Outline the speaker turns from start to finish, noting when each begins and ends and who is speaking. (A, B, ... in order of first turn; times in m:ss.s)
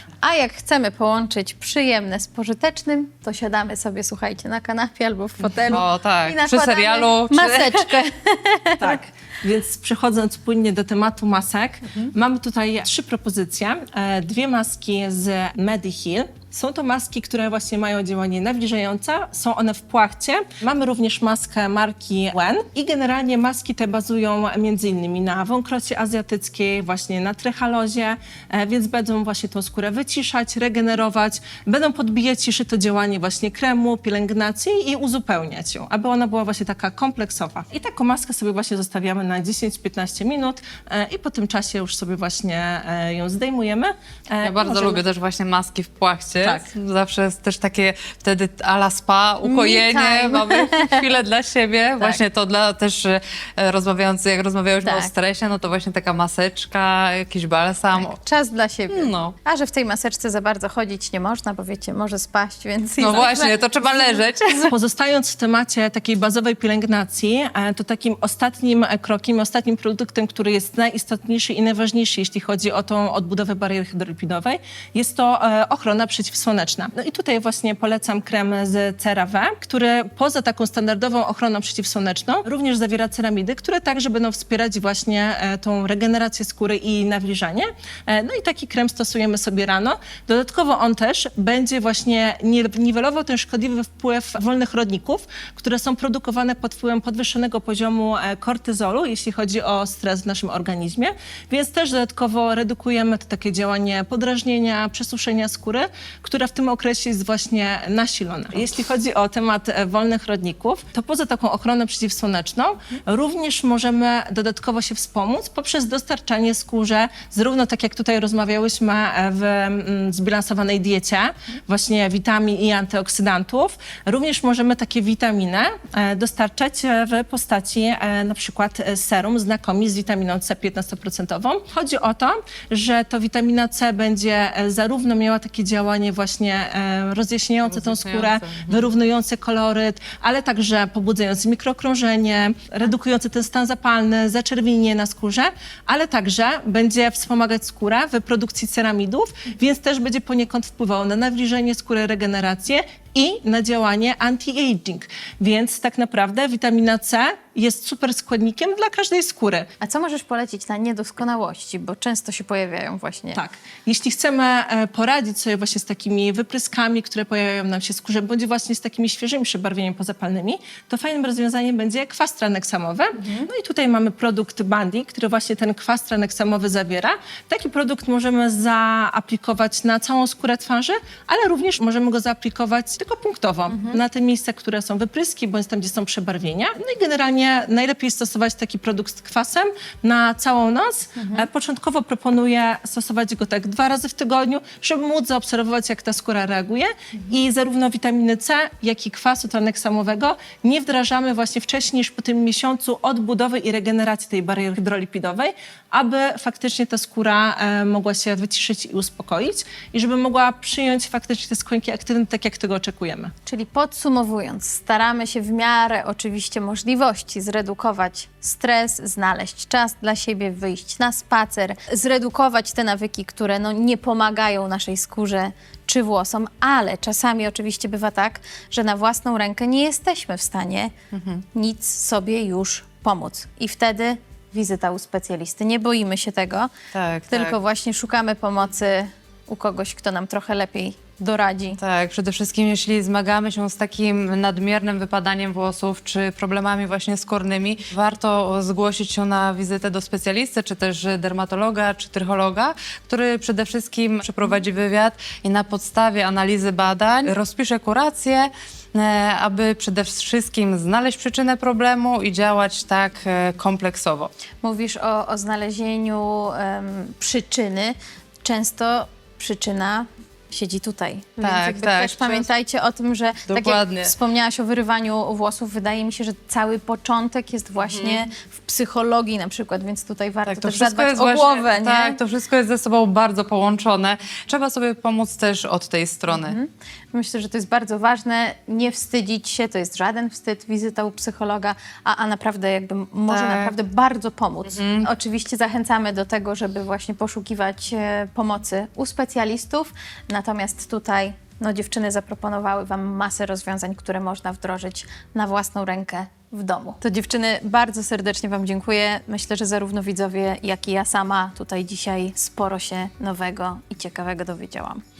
0:00.2-0:09.0 A
0:05.4-0:05.8 B
0:05.7-0:07.9 C
0:08.8-0:45.0 B
0:44.4-0:58.2 C
0:46.4-0:46.7 B
0:49.4-0:51.1 A
0:54.8-0:55.1 A
0:57.9-1:04.2 A
0:58.9-0:59.3 C
1:03.0-1:04.7 C
1:04.7-2:39.7 B
2:17.6-2:18.9 C
2:39.8-2:43.4 A
2:43.3-3:33.3 B
2:53.2-2:53.5 A
3:03.7-3:04.0 A
3:11.2-3:11.5 A
3:33.5-3:50.9 A
3:51.1-3:51.4 C
3:51.5-3:56.7 A
3:56.9-3:57.6 C
3:57.3-4:01.8 A
4:01.8-4:24.3 C
4:24.6-4:42.2 A
4:31.4-4:32.5 C
4:33.5-4:34.1 C
4:37.8-4:38.2 C
4:40.4-4:46.6 C
4:46.3-5:15.0 A
4:53.3-4:53.7 C
4:54.6-4:55.1 C